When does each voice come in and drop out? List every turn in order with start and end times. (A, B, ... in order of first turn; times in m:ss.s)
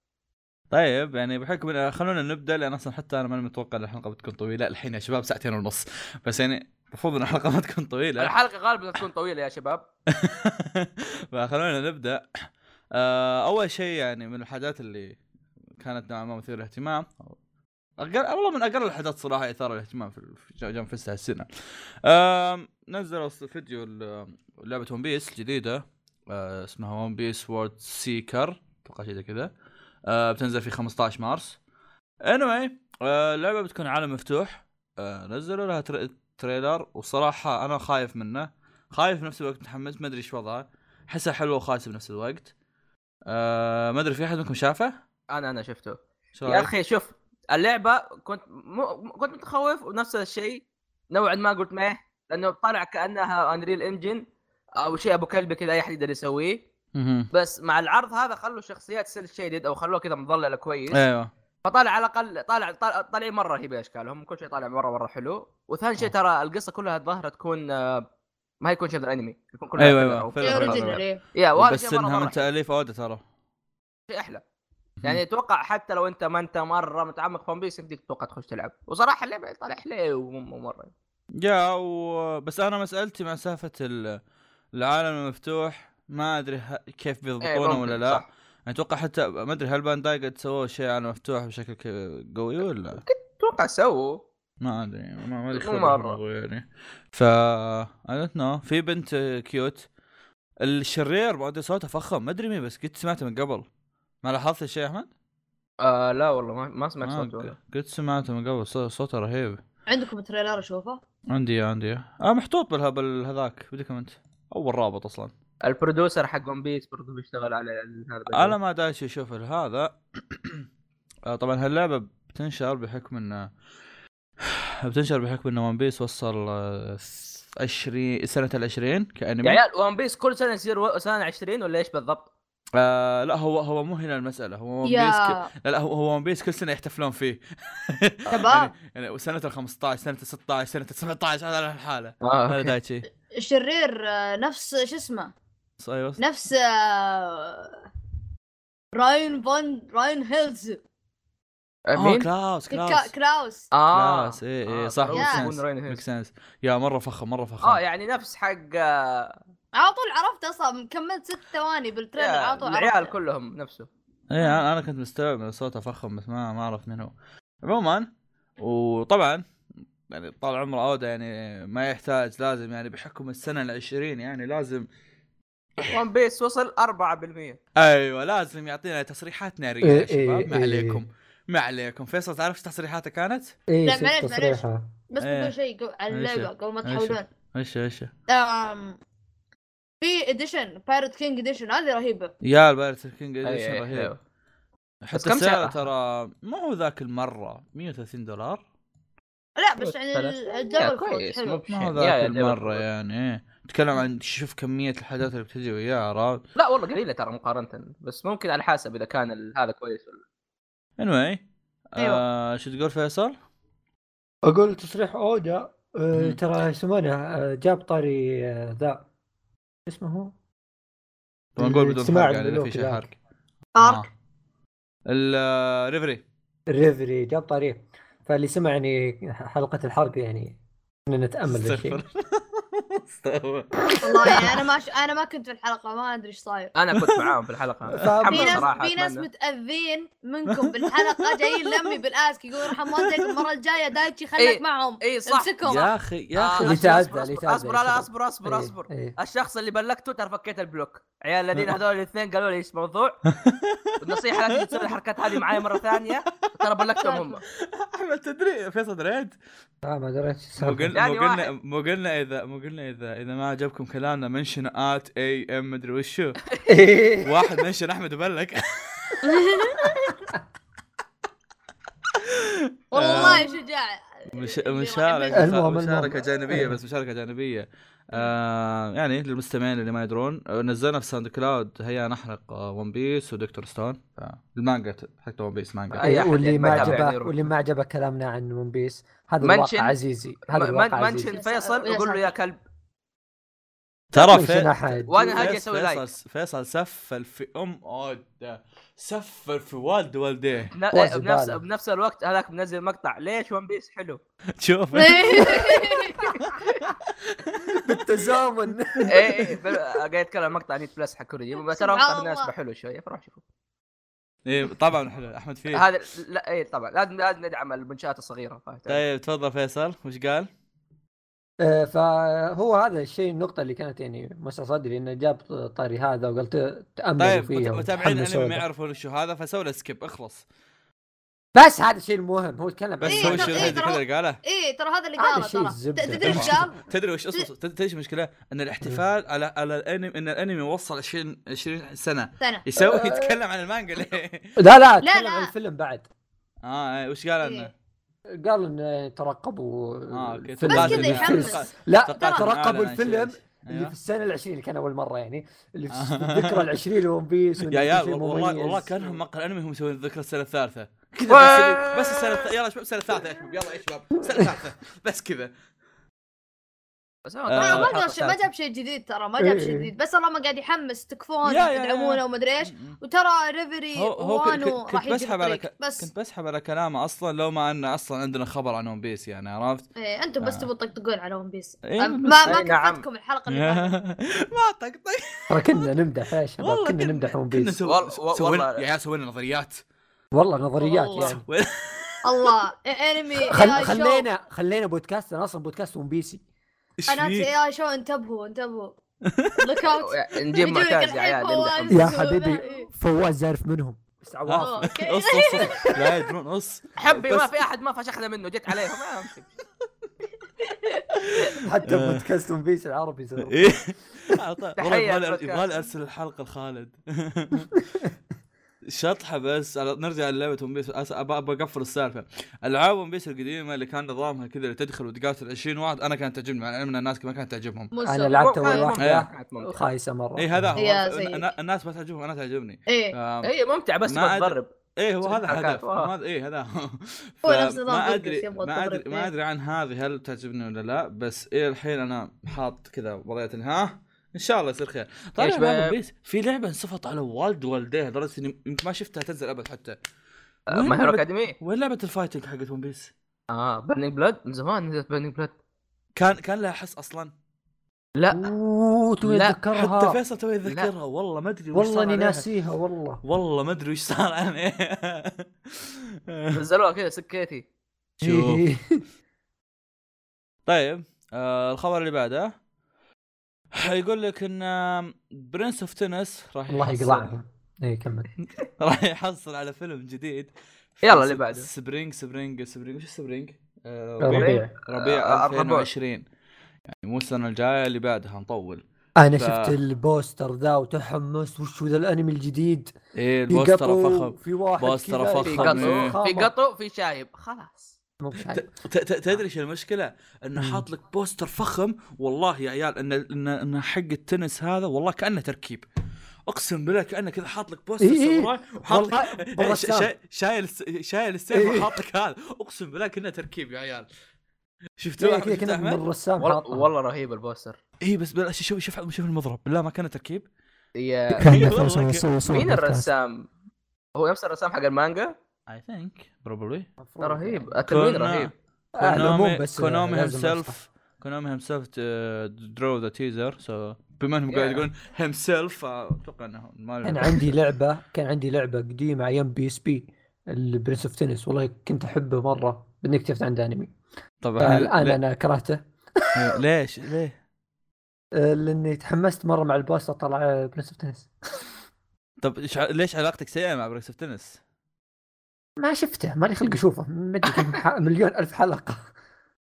0:00.7-0:08.3 A
0:08.2-0:09.8 B
0:10.1-0:15.2 A
0:15.8-0:17.4 A
0:18.0-0:21.5 A
0:22.0-0:29.5 A
0:30.1-0:31.6 A
0:32.2-0:42.5 A
0:43.3-0:45.0 A
0:45.3-0:54.2 B
0:46.3-0:46.7 A
0:54.8-0:56.6 B
0:56.9-0:57.3 A
0:57.3-1:01.0 B
1:00.9-1:01.3 A
1:01.6-1:08.0 B
1:08.6-1:12.5 B
1:09.8-1:11.0 A
1:10.4-1:11.2 C
1:11.6-1:13.2 A
1:14.1-1:14.4 B
1:15.0-1:20.9 B
1:21.4-1:24.2 A
1:24.7-1:33.0 A
1:27.4-1:28.3 B
1:33.0-1:34.2 B
1:34.6-1:39.8 A
1:35.5-1:36.2 B
1:40.6-1:43.7 A
1:44.2-1:45.1 A
1:45.8-1:47.5 B
1:47.0-1:49.6 A
1:49.9-1:51.0 C
1:51.3-1:55.3 A
1:55.6-1:58.6 B
1:58.3-2:00.6 A
2:01.3-2:03.5 A
2:04.8-2:09.6 A
2:09.4-2:12.3 B
2:12.8-2:23.0 A
2:14.8-2:15.5 C
2:18.3-2:18.7 C
2:22.2-2:22.7 B
2:23.3-2:25.3 C
2:25.8-2:26.2 A
2:26.2-2:27.8 C
2:28.9-2:30.8 C
2:31.9-2:32.3 B
2:31.9-2:33.1 A
2:32.7-2:33.7 C
2:33.7-2:36.0 B
2:33.9-2:37.8 A
2:35.1-2:35.4 C
2:37.6-2:39.4 B
2:39.7-2:43.1 C
2:42.2-2:43.9 B
2:44.3-2:48.1 A
2:48.6-2:49.4 A
2:50.1-2:54.9 A
2:55.8-2:57.6 B
2:57.8-3:03.5 A
2:59.8-3:01.0 D
3:03.7-3:04.8 D
3:03.8-3:07.3 C
3:05.2-3:05.5 A
3:06.1-3:08.1 A
3:08.3-3:09.0 C
3:10.0-3:12.3 C
3:12.4-3:14.1 A
3:13.4-3:14.2 B
3:15.0-3:18.6 A
3:15.1-3:15.8 B
3:19.6-3:21.6 C
3:19.8-3:22.8 B
3:21.7-3:26.4 A
3:26.6-3:30.2 B
3:31.0-3:33.4 A
3:34.4-3:39.0 D
3:36.1-3:36.4 A
3:39.8-3:40.3 D
3:41.6-3:43.1 A
3:41.6-3:43.0 D
3:43.8-3:44.0 C
3:43.8-3:44.1 A
3:45.1-3:46.2 A
3:46.7-3:52.0 D
3:51.5-3:53.7 A
3:53.8-3:54.6 D
3:54.0-3:56.7 C
3:56.7-3:59.2 B
3:56.9-3:57.3 A
3:57.9-3:58.7 D
3:58.2-4:05.9 C
4:00.5-4:01.9 A
4:02.7-4:03.1 A
4:04.4-4:05.5 B
4:05.6-4:06.9 A
4:06.3-4:13.2 B
4:06.6-4:09.1 D
4:13.3-4:16.7 A
4:14.0-4:17.4 B
4:17.0-4:17.4 C
4:17.6-4:19.4 A
4:19.8-4:21.0 D
4:20.6-4:26.4 A
4:20.9-4:21.5 B
4:26.6-4:27.4 D
4:27.2-4:29.2 A
4:29.2-4:30.2 C
4:32.9-4:33.4 A
4:32.9-4:35.4 C
4:34.3-4:47.0 A
4:35.3-4:36.8 D
4:45.9-4:47.4 B
4:46.0-4:51.3 D
4:49.4-4:50.0 B
4:50.5-4:52.6 B
4:51.2-4:52.3 C
4:54.1-5:00.7 A
4:54.1-4:55.4 D
4:55.0-4:56.0 B
5:00.7-5:04.2 B
5:00.9-5:01.6 D
5:04.6-5:05.8 A
5:04.9-5:06.3 C
5:06.4-5:08.2 A
5:07.7-5:09.3 D
5:08.9-5:09.4 A
5:09.1-5:13.4 B
5:11.6-5:12.5 C
5:14.4-5:15.8 A
5:15.7-5:19.0 B
5:18.9-5:20.5 A
5:21.6-5:28.6 D
5:27.2-5:30.4 A
5:31.5-5:33.8 D
5:33.0-5:34.4 A
5:33.1-5:36.8 C
5:35.2-5:36.7 D
5:36.2-5:44.6 A
5:42.8-5:43.4 D
5:44.6-5:46.1 D
5:45.0-5:45.5 C
5:46.6-5:47.7 A
5:47.4-5:47.7 C
5:48.3-5:59.2 D
5:50.1-5:53.9 A
5:50.7-5:51.6 C
5:52.2-5:52.4 C
5:55.9-5:56.7 A
5:57.6-6:05.5 A
6:01.3-6:02.5 B
6:07.3-6:08.4 B
6:07.4-6:07.9 A
6:07.6-6:16.1 C
6:09.4-6:09.9 D
6:11.4-6:13.0 A
6:13.9-6:19.9 A
6:20.0-6:23.9 C
6:20.4-6:20.7 A
6:21.8-6:22.6 A
6:22.4-6:23.0 B
6:23.5-6:25.9 A
6:25.5-6:27.7 D
6:26.6-6:29.8 A
6:27.8-6:28.8 B
6:30.3-6:31.4 D
6:30.8-6:31.3 C
6:31.2-6:32.5 A
6:32.2-6:34.2 C
6:33.4-6:36.4 D
6:37.0-6:37.5 A
6:37.1-6:38.9 C
6:39.2-6:39.6 A
6:39.6-6:42.9 C
6:40.0-6:42.1 B
6:41.9-6:44.9 D
6:44.4-6:47.5 A
6:44.6-6:45.9 C
6:45.6-6:45.9 D
6:47.0-6:49.5 B
6:50.6-6:51.0 C
6:51.1-6:52.2 A
6:51.6-6:53.8 D
6:53.4-6:57.7 A
6:54.8-6:55.8 B
6:58.9-7:07.9 A
7:07.9-7:08.9 C
7:08.0-7:10.7 D
7:08.4-7:09.9 B
7:09.0-7:09.3 A
7:10.4-7:13.5 A
7:10.8-7:11.5 C
7:12.9-7:13.2 C
7:13.4-7:14.7 B
7:14.1-7:30.0 A
7:15.2-7:16.1 B
7:17.4-7:19.3 C
7:25.4-7:26.0 B
7:30.7-7:31.6 B
7:30.7-7:33.1 A
7:33.5-7:35.5 B
7:36.2-7:37.3 A
7:38.2-7:38.5 B
7:38.3-7:40.2 D
7:39.2-7:39.6 B
7:39.8-7:42.4 A
7:40.6-7:40.9 B
7:41.7-7:43.2 D
7:43.2-7:46.6 A
7:46.5-7:47.6 B
7:48.2-7:48.6 A
7:48.2-7:49.0 D
7:50.6-7:52.5 A
7:53.7-7:57.3 A
7:56.7-7:58.3 D
7:58.8-8:06.2 A
8:01.0-8:01.7 B
8:04.2-8:04.7 D
8:04.3-8:05.9 B
8:06.9-8:08.8 A
8:09.2-8:12.9 D
8:09.4-8:09.8 A
8:13.1-8:16.2 A
8:13.5-8:16.5 D
8:15.4-8:17.9 B
8:18.2-8:18.7 D
8:18.4-8:25.8 A
8:20.6-8:20.8 D
8:26.5-8:34.1 A
8:28.0-8:30.1 D
8:31.5-8:31.9 D
8:35.0-8:36.0 A
8:35.2-8:36.9 D
8:36.4-8:37.8 B
8:38.0-8:40.4 A
8:41.0-8:41.7 B
8:41.3-8:43.1 D
8:41.4-8:42.3 A
8:42.5-8:43.4 B
8:44.2-8:45.3 B
8:45.7-8:46.9 A
8:47.0-8:47.8 D
8:47.2-8:48.5 B
8:47.8-8:57.5 A
8:48.9-8:50.8 D
8:54.5-8:54.8 B
8:57.0-9:03.9 D
9:04.4-9:05.2 A
9:04.6-9:06.4 D
9:06.3-9:07.4 A
9:08.3-9:11.3 D
9:12.4-9:14.6 A
9:15.8-9:19.1 D